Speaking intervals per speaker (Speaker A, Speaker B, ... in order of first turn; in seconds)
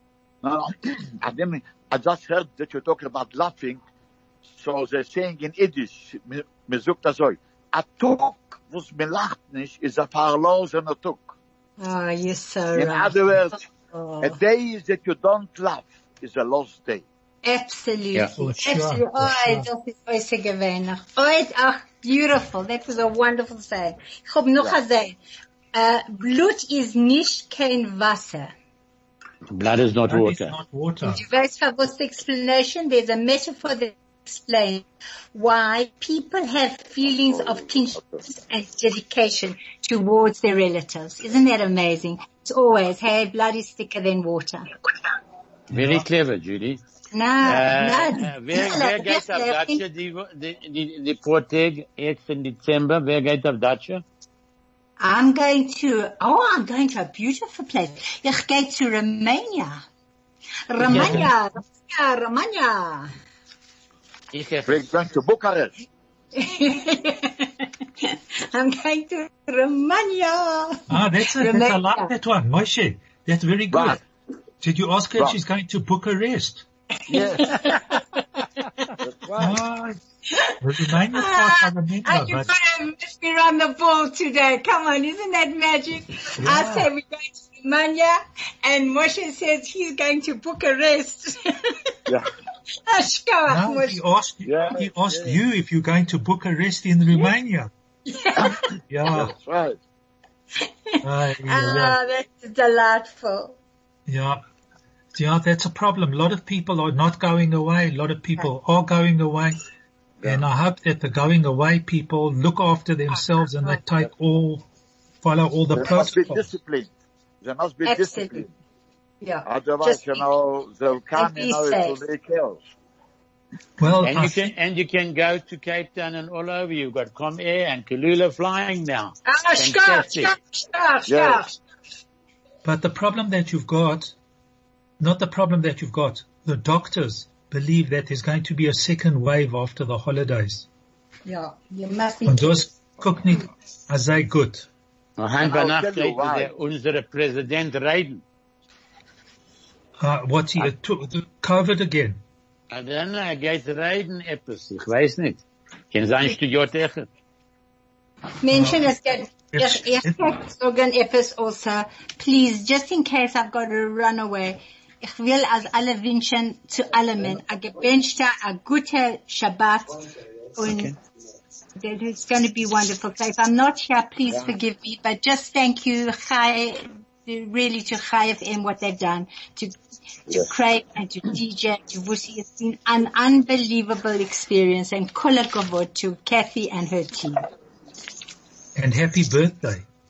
Speaker A: 0.4-3.8, 4.5-11.3, 12.7-13.6, 14.2-17.1, 64.7-65.7, 73.7-74.0, 77.1-77.8, 79.0-79.6, 94.4-95.3, 98.4-99.8, 115.7-116.9, 117.4-118.5, 119.5-122.6, 131.1-131.5, 145.4-146.5
Speaker B: 11.8-14.4, 17.4-25.2, 25.7-28.5, 31.0-44.7, 47.1-49.8, 55.0-59.8, 60.7-63.1, 66.3-72.1, 77.1-78.0, 80.3-91.9, 92.8-94.0, 98.1-98.6, 100.6-103.5, 117.8-118.4, 119.2-120.2, 121.1-122.0, 129.2-131.5, 141.2-142.7, 158.4-170.0, 170.5-170.9, 171.8-179.7, 180.3-187.4
Speaker C: 18.4-19.7, 30.1-31.2, 45.7-46.0, 60.8-61.3, 70.9-74.0, 74.6-76.6, 79.4-80.0, 80.6-82.5, 86.4-86.9, 93.5-97.7, 98.9-99.3, 101.0-102.0, 104.1-104.4, 105.1-109.6, 110.2-114.6, 115.2-116.4, 123.8-124.5, 132.6-134.1, 135.0-140.7, 142.2-144.7, 150.0-152.2, 158.5-158.8, 159.5-160.2, 188.8-189.8
Speaker D: 29.5-30.5, 45.7-46.8, 47.4-54.0, 60.8-61.3, 64.3-64.8, 124.0-130.3, 145.2-148.2, 152.7-157.1